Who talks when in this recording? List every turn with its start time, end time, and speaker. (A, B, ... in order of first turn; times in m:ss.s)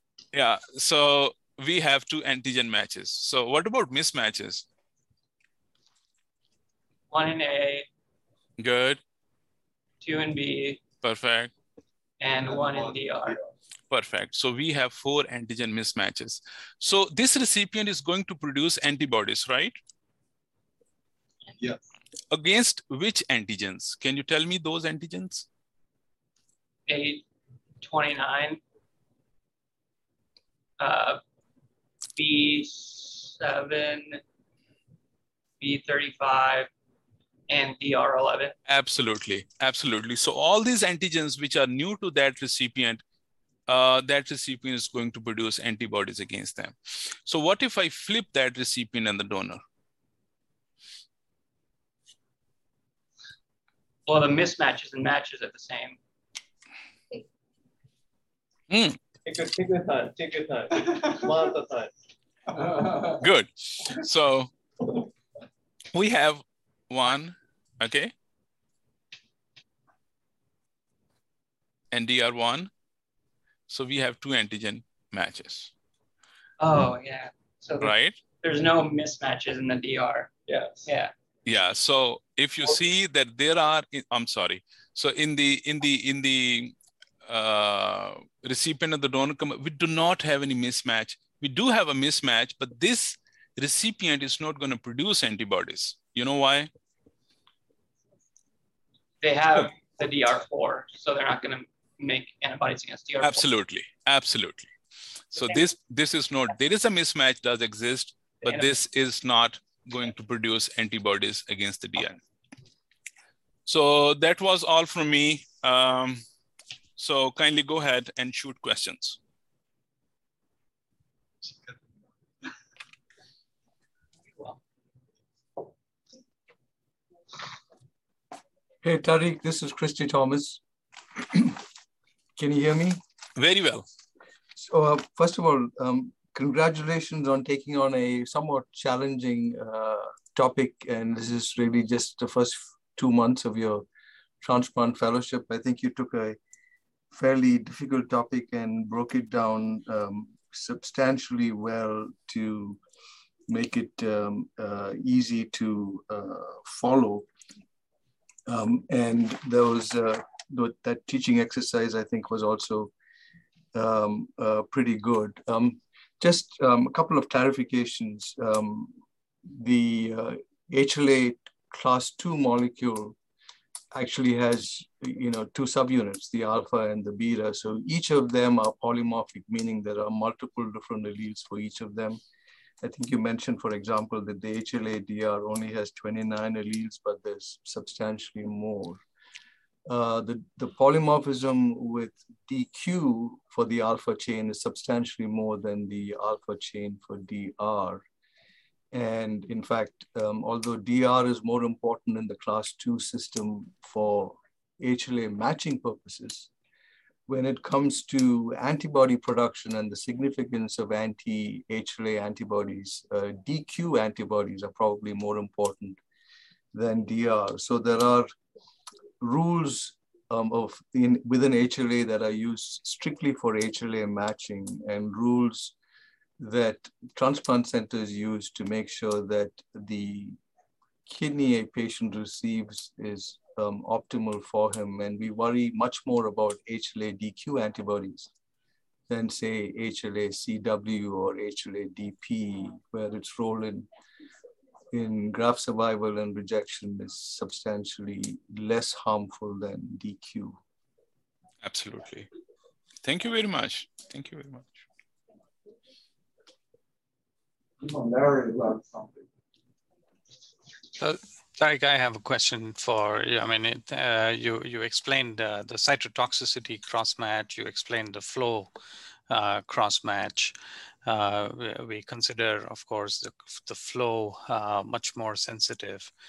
0:00.3-0:04.6 A
0:07.1-0:07.9 B
0:08.6-0:09.0 A
0:10.0-0:10.8 B
0:11.0-0:11.5 A
0:12.2-0:13.4 B
0:13.9-0:19.8 A
0:21.5-0:21.8 C
0:22.3-0:25.5 A
0:26.9-0:27.2 B
0:27.8-0:28.6 B
0:30.8-0:31.2 B
0:32.2-0:34.2 B
0:35.6-0:36.7 B
0:37.5-0:38.6 B
0:38.7-0:43.0 A
0:43.7-0:49.6 A
0:54.1-0:56.0 B
0:58.7-0:59.0 A
0:59.2-1:01.9 C
1:02.6-1:03.1 C
1:03.1-1:04.5 A
1:05.9-1:08.1 A
1:11.9-1:12.7 A
1:13.7-1:15.7 A
1:16.6-1:21.1 B
1:17.8-1:18.2 A
1:20.5-1:20.8 C
1:21.4-1:26.7 A
1:27.2-1:36.7 A
1:39.2-1:43.5 B
1:43.2-1:44.7 A
1:45.3-1:52.2 A
1:53.6-1:56.2 A
1:57.0-1:59.2 A
2:08.8-2:10.6 D
2:11.2-2:11.6 D
2:12.4-2:13.0 D
2:13.4-2:13.9 A
2:14.6-2:23.8 D
2:24.4-2:26.4 D
2:27.1-2:32.8 D
2:33.5-2:37.2 D
2:38.5-2:42.9 D
2:43.7-2:48.9 D
2:49.4-2:53.2 D
2:53.9-3:02.2 D
3:02.8-3:09.0 D
3:09.9-3:18.0 D
3:18.9-3:26.5 D
3:27.3-3:36.0 D
3:36.7-3:38.3 D
3:39.2-3:45.7 D
3:46.4-3:50.4 D
3:51.1-3:58.3 D
3:59.1-4:03.9 D
4:04.9-4:10.6 D
4:11.6-4:12.3 A
4:13.0-4:14.8 A
4:17.8-4:19.2 C
4:21.0-4:28.7 E
4:29.3-4:36.1 E